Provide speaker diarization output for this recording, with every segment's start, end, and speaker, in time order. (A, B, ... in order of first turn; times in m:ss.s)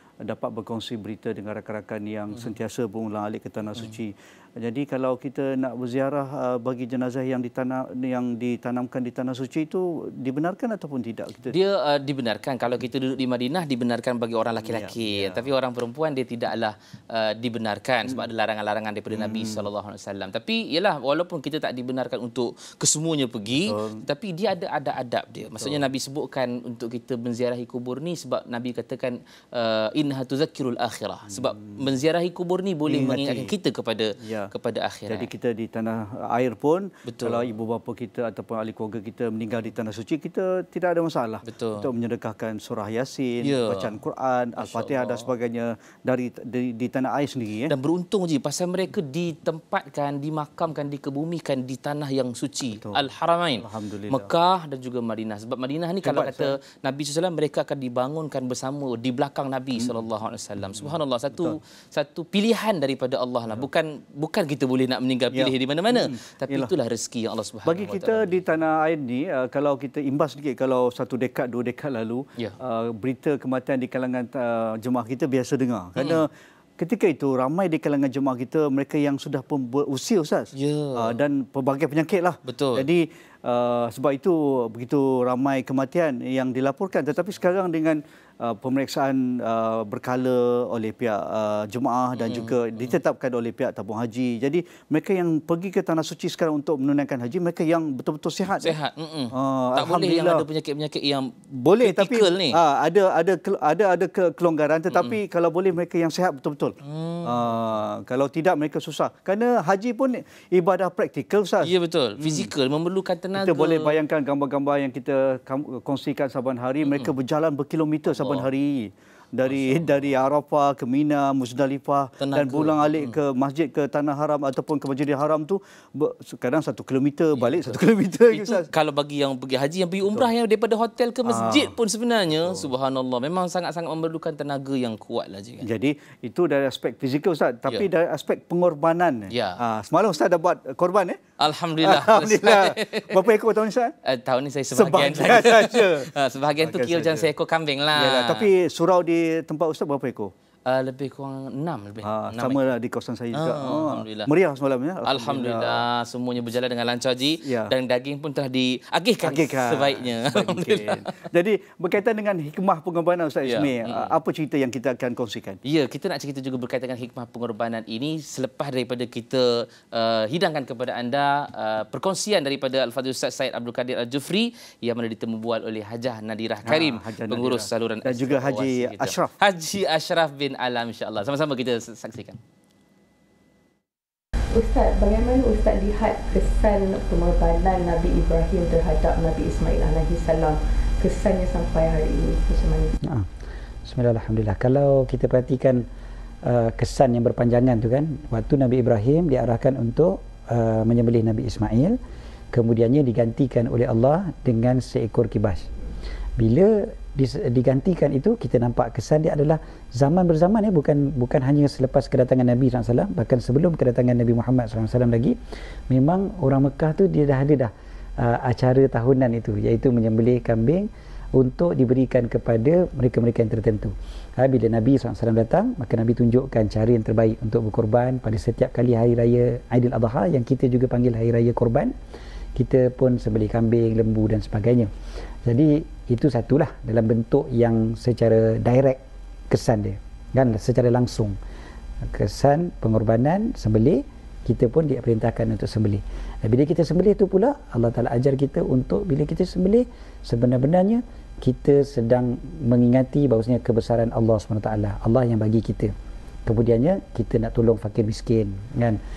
0:00.2-0:11.5 A
0:11.5-0:35.3 B
0:14.7-0:15.5 A
0:19.1-0:19.6 A
0:32.9-0:33.5 A
0:34.2-0:34.5 A
0:35.1-0:47.7 A
0:37.0-0:37.5 B
0:41.4-0:41.9 B
0:43.4-0:44.0 B
0:44.6-0:45.3 B
0:47.7-1:08.4 B
0:53.6-0:54.3 A
0:56.0-0:56.6 A
1:05.3-1:06.7 A
1:07.6-1:38.8 A
1:16.0-1:16.2 B
1:20.6-1:21.2 B
1:22.4-1:22.9 B
1:32.2-1:32.9 B
1:38.6-1:42.6 B
1:39.3-1:40.4 A
1:41.5-1:52.4 A
1:44.9-1:45.2 B
1:46.8-1:47.5 B
1:51.6-1:54.0 B
1:53.3-2:08.7 A
1:56.8-1:57.1 B
1:58.1-1:58.5 B
1:59.4-2:00.1 B
2:02.2-2:03.2 B
2:07.4-2:15.7 B
2:11.3-2:11.7 A
2:15.6-2:21.2 A
2:19.3-2:19.6 B
2:21.4-2:23.3 B
2:21.8-2:23.9 A
2:24.0-2:28.5 B
2:24.8-2:27.3 A
2:27.9-2:30.3 A
2:30.6-2:32.6 B
2:32.0-2:35.8 A
2:33.3-2:34.3 B
2:35.0-2:41.1 B
2:37.4-2:37.7 A
2:39.2-2:45.6 A
2:43.4-2:44.1 B
2:45.6-3:02.4 B
2:56.6-2:59.2 A
3:04.6-3:13.0 C
3:13.8-3:15.8 D
3:16.4-3:22.0 D
3:22.5-3:25.7 D
3:26.4-3:35.4 D
3:35.9-3:51.9 D
3:52.6-3:54.9 D
3:55.4-4:01.4 D
4:02.1-4:15.9 D
4:16.4-4:19.0 D